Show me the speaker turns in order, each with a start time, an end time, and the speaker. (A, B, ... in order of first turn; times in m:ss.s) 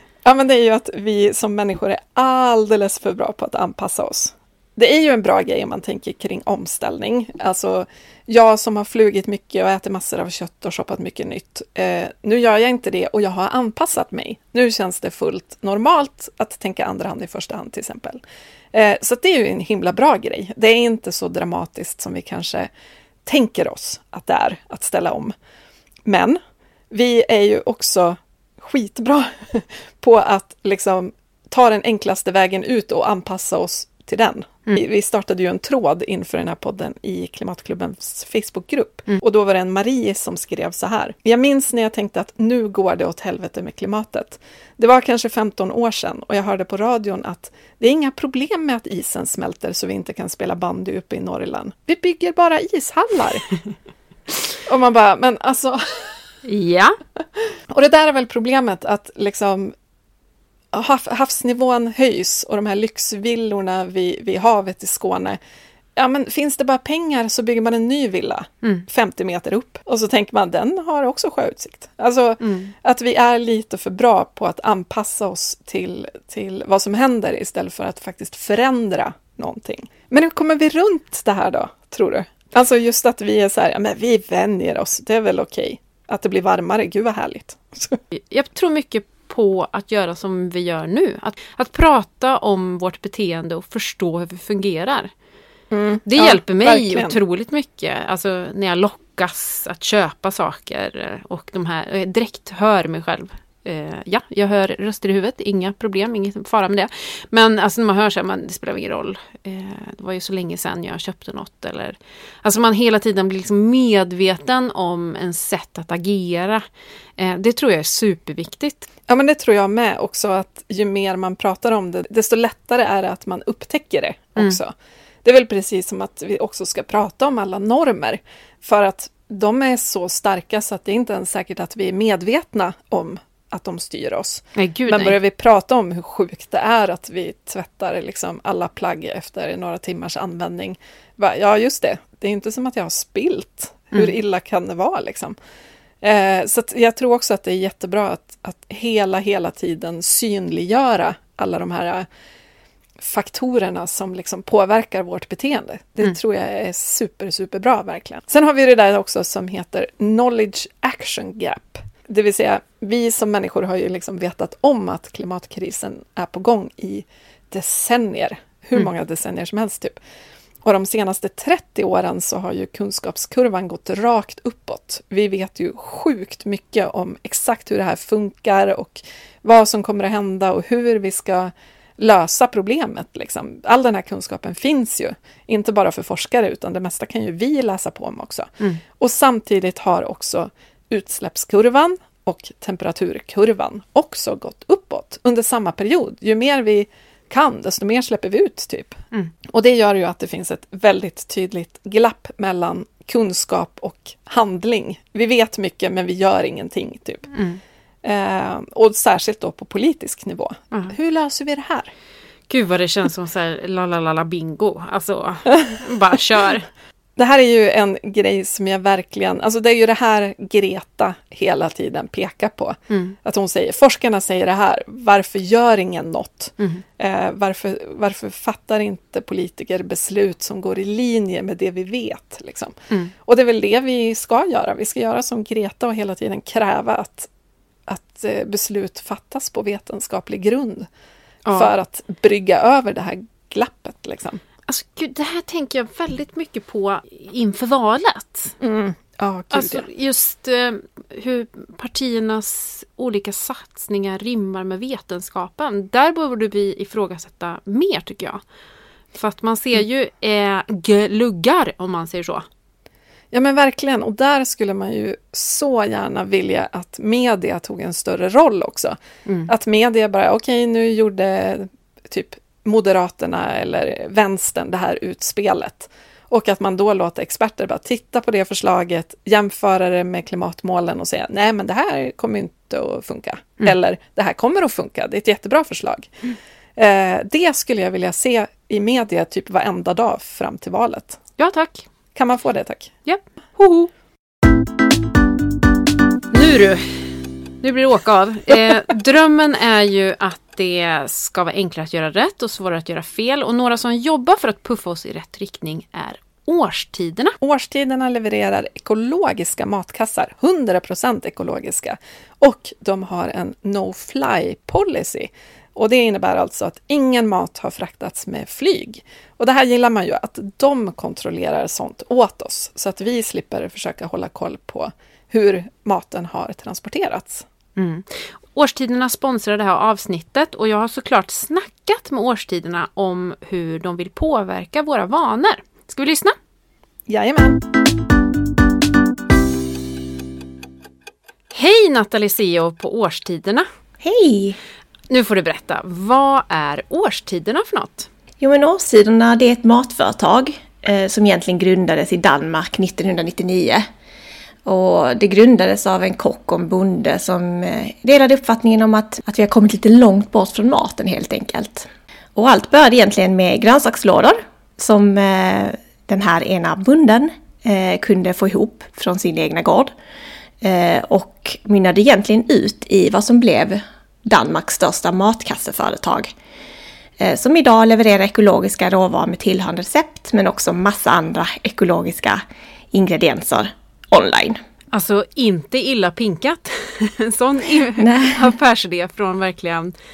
0:00.2-0:18.2 A
0:18.7-0:22.7 A
0:23.2-0:25.4 A
0:26.0-0:53.5 A
0:54.6-0:56.2 A
0:56.4-0:57.0 B
0:57.7-0:59.7 A
1:00.7-1:05.4 A
1:06.0-1:28.0 A
1:12.4-1:12.7 B
1:28.1-1:35.1 B
1:35.7-1:37.2 A
1:36.1-1:56.6 B
1:57.2-1:58.9 B
1:59.1-2:04.7 A
2:05.2-2:25.4 A
2:14.6-2:15.2 B
2:26.0-2:32.1 A
2:33.0-2:50.0 A
2:50.6-3:27.3 A
3:27.3-3:27.6 B
3:28.0-3:31.9 A
3:32.5-3:36.7 B
3:37.2-3:57.3 A
3:42.9-3:43.2 B
3:46.6-3:46.8 B
3:57.9-4:00.9 A
4:01.4-4:01.7 B
4:01.5-4:04.4 A
4:04.7-4:08.6 B
4:08.6-4:09.9 A
4:09.5-4:18.4 B
4:19.2-4:22.5 B
4:23.3-4:46.1 A
4:29.3-4:29.5 B
4:46.8-4:51.2 A
4:51.4-4:51.8 B
4:52.2-4:52.9 A
4:53.1-4:53.9 B
4:56.3-5:07.4 B
5:07.4-5:27.5 A
5:27.8-5:36.4 B
5:37.1-5:37.6 A
5:41.5-5:43.7 B
5:44.0-5:44.6 C
5:45.1-5:48.1 B
5:48.4-5:53.9 C
5:54.6-6:09.9 C
6:10.6-6:16.3 C
6:17.2-6:22.4 C
6:22.9-6:24.6 C
6:24.9-6:29.9 B
6:28.0-6:28.4 C